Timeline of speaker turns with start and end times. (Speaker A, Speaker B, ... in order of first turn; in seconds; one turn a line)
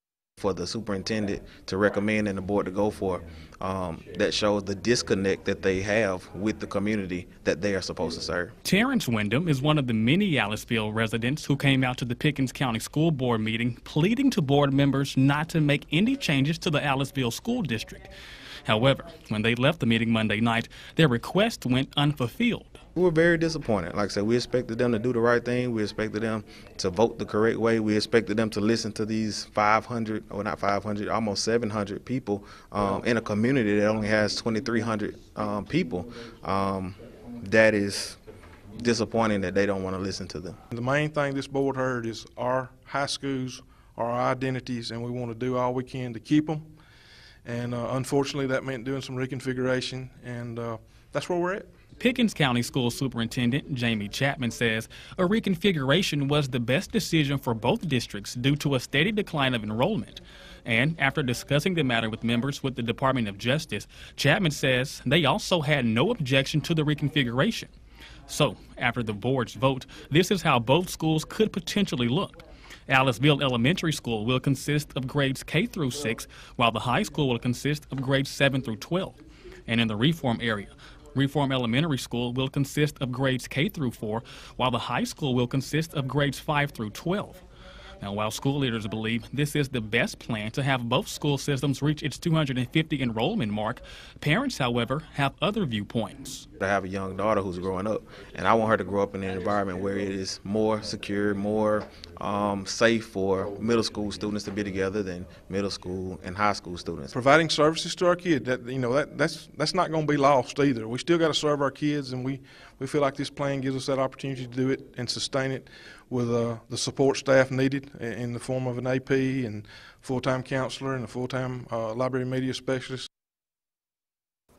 Speaker A: 0.4-8.5
Speaker B: 8.6-18.1
Speaker B: 18.6-22.8
Speaker A: 22.9-38.2
Speaker A: 38.8-40.6
Speaker C: 40.7-46.6
Speaker C: 47.4-51.7
Speaker B: 52.0-67.7
Speaker B: 68.3-72.4
Speaker B: 72.9-87.4
Speaker B: 88.0-96.5
Speaker A: 96.6-107.1
Speaker C: 107.1-123.1